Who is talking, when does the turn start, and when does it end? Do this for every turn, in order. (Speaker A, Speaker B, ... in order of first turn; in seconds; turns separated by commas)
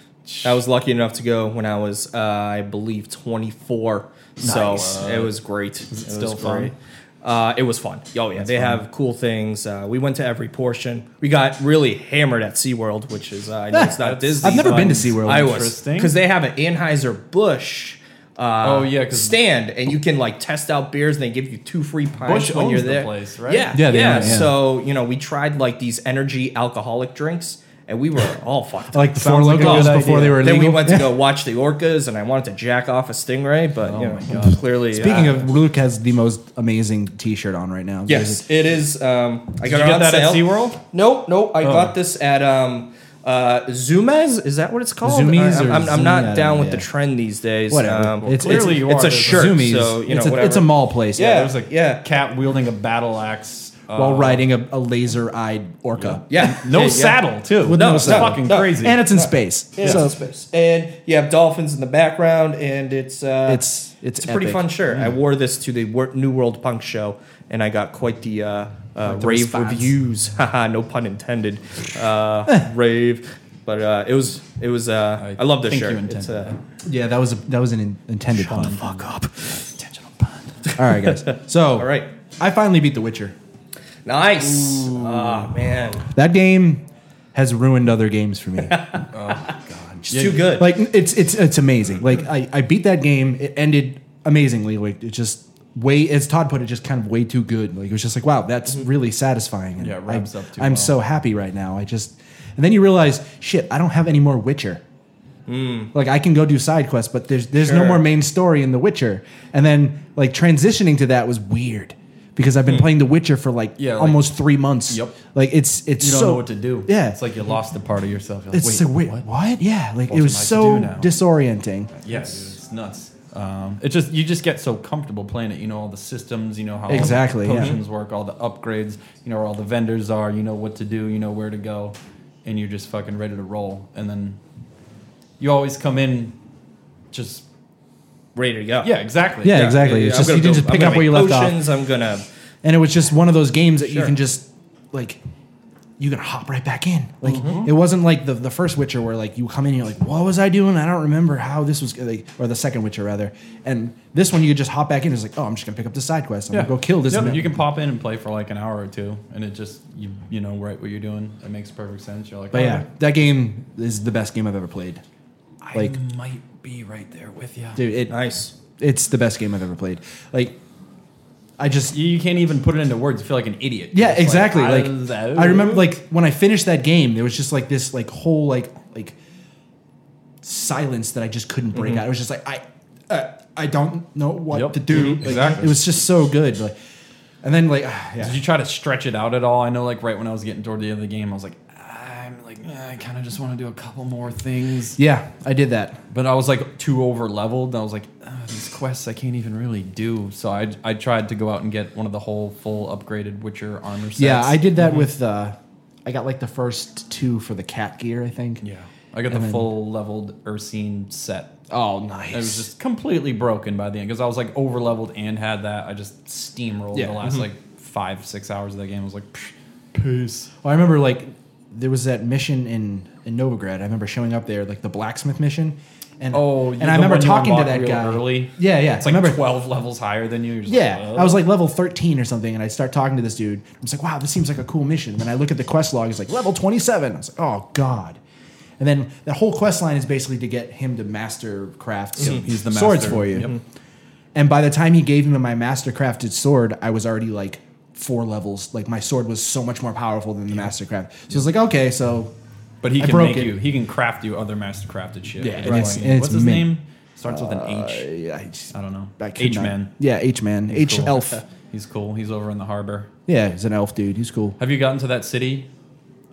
Speaker A: 0.2-0.6, Speaker B: 0.4-35.4, Speaker A: 4.4-5.3, Speaker C: 4.4-4.9, Speaker A: 5.9-6.7, Speaker A: 8.3-8.8, Speaker C: 13.7-15.7, Speaker A: 14.0-16.1, Speaker A: 18.6-19.4, Speaker A: 22.2-24.5, Speaker C: 23.7-24.5, Speaker C: 28.9-31.1, Speaker A: 29.3-30.4, Speaker A: 33.8-35.4, Speaker C: 34.9-38.4, Speaker B: 38.1-52.0, Speaker A: 39.6-40.8, Speaker A: 41.6-41.9, Speaker C: 45.0-46.9, Speaker C: 47.7-51.5, Speaker A: 48.2-49.6, Speaker A: 51.2-54.5, Speaker C: 54.0-56.5, Speaker A: 56.0-59.0, Speaker B: 56.3-63.6, Speaker C: 57.6-60.1, Speaker C: 63.4-64.7, Speaker B: 64.2-76.5, Speaker C: 69.0-69.9, Speaker A: 75.2-76.6, Speaker C: 76.8-78.8, Speaker B: 78.3-79.6, Speaker A: 78.4-80.6, Speaker B: 80.7-81.2, Speaker C: 80.8-83.3, Speaker B: 81.8-82.1, Speaker B: 84.0-86.1, Speaker A: 84.4-85.5, Speaker C: 86.1-88.8, Speaker B: 88.7-89.0, Speaker A: 89.1-90.5, Speaker B: 90.1-90.7, Speaker C: 90.4-104.8, Speaker A: 99.8-101.0, Speaker B: 105.5-105.9, Speaker C: 105.9-117.2, Speaker B: 107.5-108.1, Speaker A: 113.8-115.2, Speaker A: 116.0-119.2, Speaker C: 118.5-121.9, Speaker A: 120.1-121.1, Speaker A: 122.0-134.4, Speaker C: 126.9-127.7, Speaker A: 135.4-136.3, Speaker A: 137.1-137.4, Speaker B: 138.3-138.9, Speaker A: 138.8-139.8, Speaker C: 139.4-141.7, Speaker B: 139.4-142.2, Speaker C: 142.6-145.2, Speaker B: 143.9-144.1, Speaker C: 146.0-157.5, Speaker B: 147.2-147.6, Speaker A: 147.2-147.7, Speaker A: 156.5-162.8, Speaker C: 162.5-165.0, Speaker A: 165.6-167.8, Speaker C: 167.8-170.6, Speaker B: 168.1-168.5, Speaker C: 171.6-171.9, Speaker A: 171.9-175.9, Speaker C: 173.9-179.2, Speaker C: 180.4-186.7, Speaker B: 181.7-182.0, Speaker A: 184.5-185.8, Speaker B: 184.9-185.5, Speaker C: 187.4-188.4, Speaker A: 188.2-195.0, Speaker C: 195.0-196.0, Speaker A: 196.1-205.1, Speaker C: 204.2-208.6, Speaker A: 208.6-211.6, Speaker C: 209.3-209.7, Speaker C: 211.7-212.7, Speaker A: 212.3-220.5, Speaker C: 216.9-217.2, Speaker C: 220.6-229.4, Speaker A: 226.3-231.4, Speaker C: 230.7-238.2, Speaker C: 238.8-243.5, Speaker A: 242.4-243.5, Speaker C: 244.3-252.3, Speaker A: 252.8-258.1, Speaker C: 253.0-253.6, Speaker C: 255.4-256.7, Speaker B: 255.6-255.9, Speaker C: 257.3-261.4, Speaker A: 258.7-259.9, Speaker A: 260.7-263.1, Speaker C: 263.3-264.6, Speaker A: 264.6-265.7